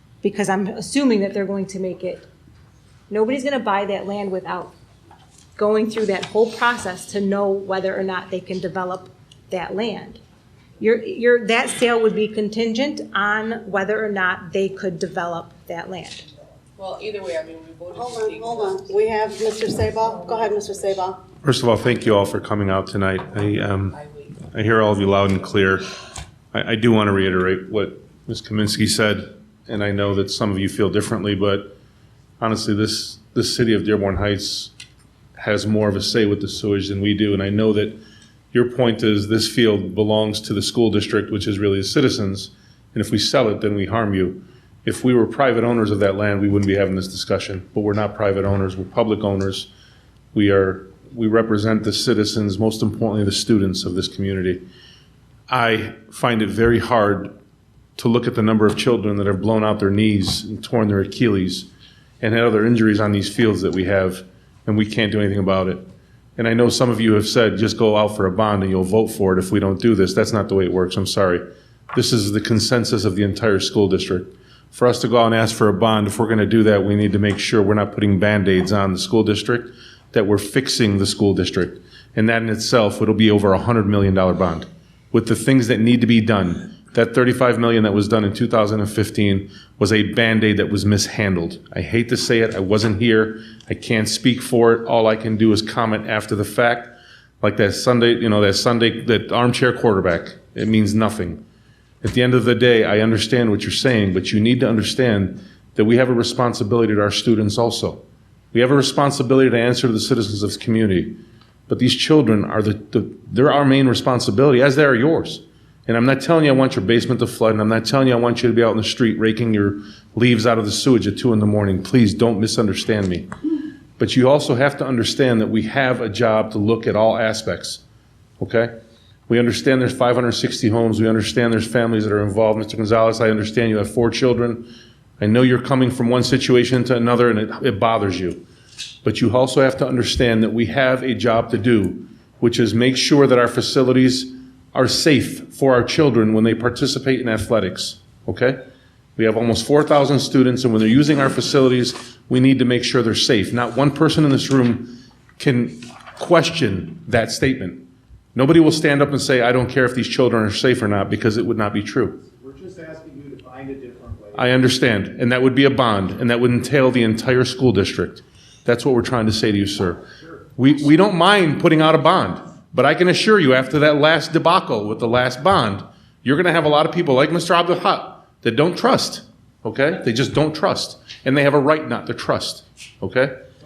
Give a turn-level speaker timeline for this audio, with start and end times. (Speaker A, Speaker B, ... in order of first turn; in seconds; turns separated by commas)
Speaker A: 0.2-2.3, Speaker A: 3.1-4.7, Speaker A: 5.5-10.2, Speaker A: 10.8-16.2, Speaker B: 16.8-19.0, Speaker C: 17.9-21.2, Speaker B: 20.1-21.0, Speaker D: 21.4-25.8, Speaker B: 23.9-24.4, Speaker D: 26.5-31.7, Speaker D: 32.4-34.7, Speaker D: 35.4-38.0, Speaker D: 38.5-49.7, Speaker D: 50.3-54.6, Speaker D: 55.5-57.3, Speaker D: 58.0-61.7, Speaker D: 62.2-65.8, Speaker D: 66.4-101.4, Speaker D: 102.0-108.0, Speaker D: 108.5-123.3, Speaker D: 124.0-127.8, Speaker D: 128.4-128.7, Speaker D: 129.3-134.7, Speaker D: 135.2-138.4, Speaker D: 139.0-148.6, Speaker D: 149.2-162.2, Speaker E: 162.3-164.5, Speaker D: 164.3-170.0, Speaker D: 170.6-183.4